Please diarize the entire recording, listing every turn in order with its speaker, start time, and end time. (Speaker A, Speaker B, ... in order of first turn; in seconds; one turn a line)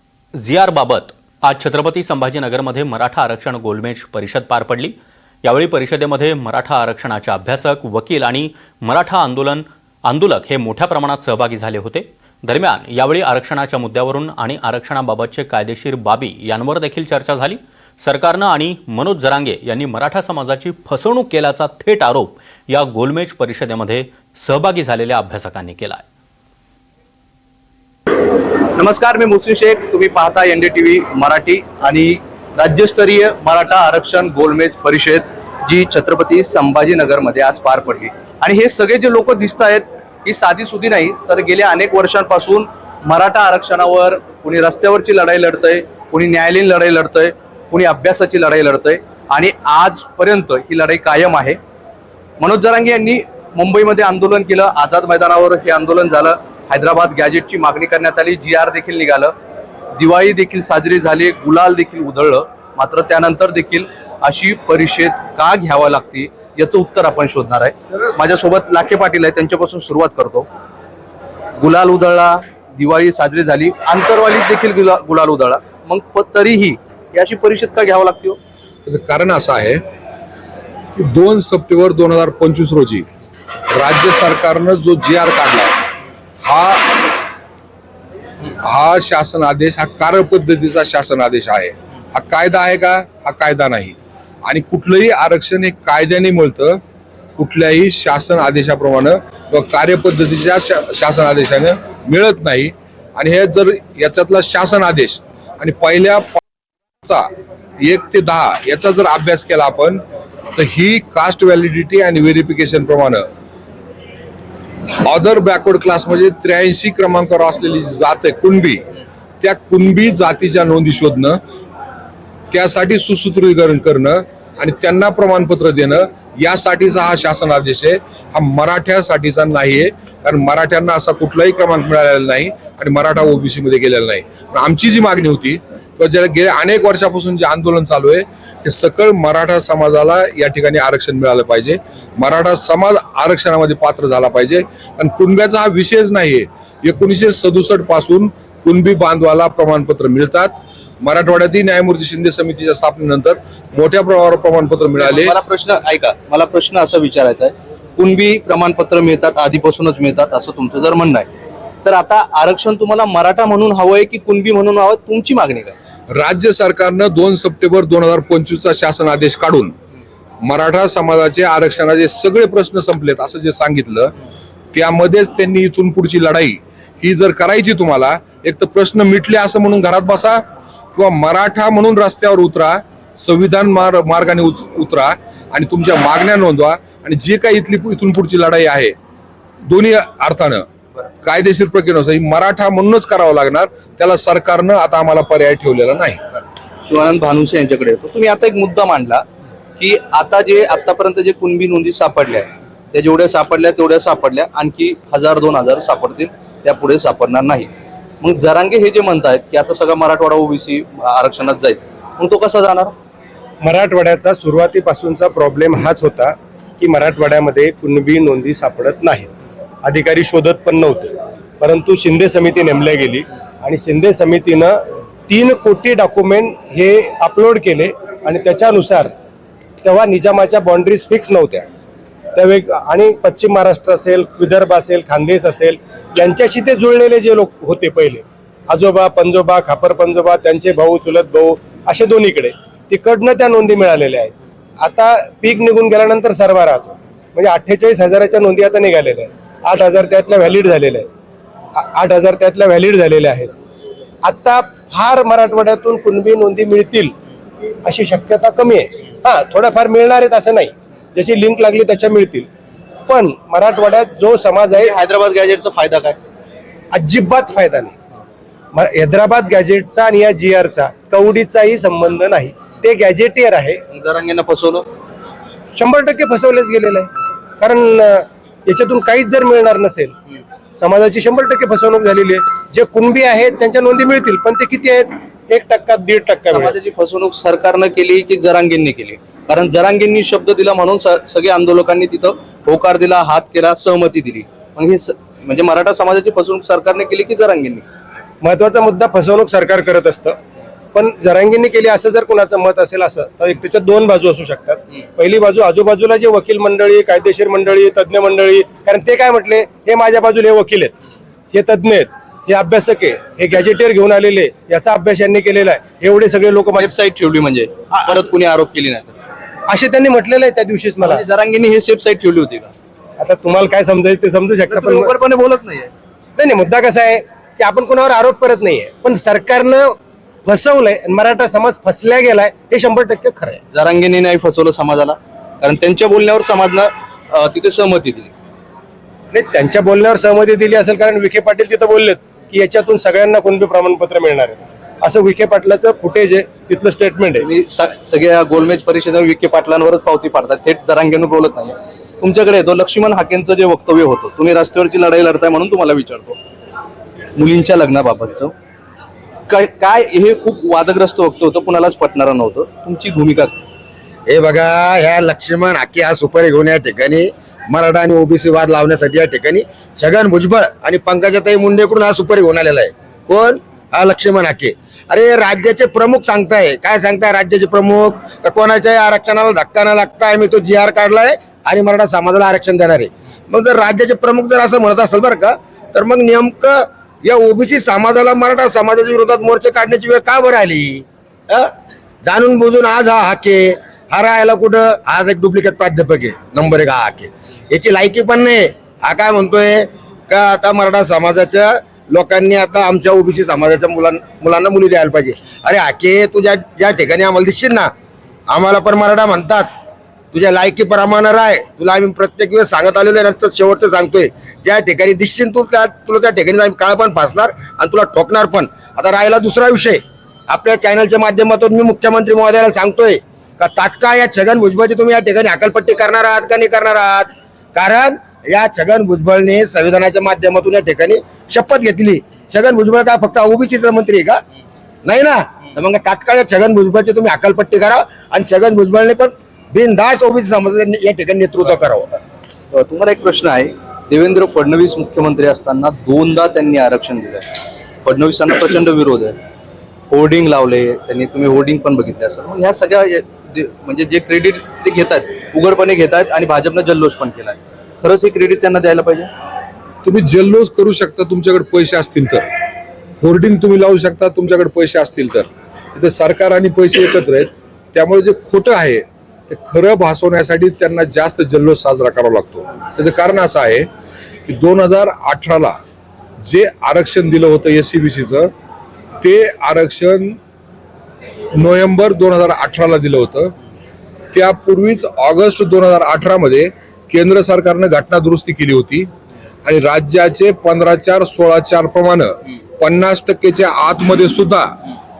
Speaker A: 0.3-26.1
Speaker B: 28.6-51.6
Speaker B: 52.4-59.3
Speaker B: 60.0-70.5
Speaker B: 71.6-78.4
Speaker C: 78.8-79.8
Speaker C: 80.9-83.1
Speaker C: 83.7-85.8
Speaker C: 86.4-87.2
Speaker C: 88.6-96.8
Speaker C: 97.4-106.4
Speaker C: 107.0-107.3
Speaker C: 107.8-113.2
Speaker C: 115.0-118.8
Speaker C: 119.4-121.4
Speaker C: 122.5-155.3
Speaker B: 155.0-161.3
Speaker B: 161.8-165.7
Speaker C: 166.1-169.7
Speaker C: 170.4-174.1
Speaker C: 174.7-180.4
Speaker C: 180.9-188.9
Speaker C: 189.6-190.7
Speaker C: 191.2-196.2
Speaker B: 196.8-199.2
Speaker B: 199.8-207.7
Speaker B: 208.2-212.9
Speaker D: 213.6-219.3
Speaker D: 219.8-229.1
Speaker D: 229.8-231.7
Speaker D: 232.3-251.1
Speaker D: 251.8-253.5
Speaker D: 254.2-257.1
Speaker D: 257.8-262.5
Speaker D: 263.1-264.9
Speaker B: 264.7-266.2
Speaker D: 266.9-267.9
Speaker D: 268.7-273.8
Speaker B: 273.9-274.9
Speaker D: 275.7-280.1
Speaker D: 280.8-286.7
Speaker B: 286.5-297.9
Speaker D: 298.4-300.4
Speaker D: 300.9-310.9
Speaker D: 311.5-316.9
Speaker B: 316.7-319.2
Speaker D: 319.7-321.2
Speaker B: 321.0-322.7
Speaker D: 323.2-325.1
Speaker B: 324.7-325.9
Speaker D: 326.4-333.6
Speaker B: 333.7-338.3
Speaker D: 339.3-347.5
Speaker B: 347.4-356.4
Speaker B: 357.4-358.5
Speaker B: 359.5-363.6
Speaker E: 364.3-391.7
Speaker E: 392.2-407.9
Speaker E: 408.5-409.7
Speaker E: 410.3-434.4
Speaker E: 435.0-442.1
Speaker B: 442.7-447.5
Speaker B: 448.0-449.4
Speaker B: 450.1-459.3
Speaker C: 460.0-462.4
Speaker C: 463.2-473.9
Speaker C: 474.4-475.8
Speaker C: 476.4-478.5
Speaker C: 479.2-480.4
Speaker C: 481.5-483.5
Speaker C: 484.3-489.1
Speaker C: 489.6-494.8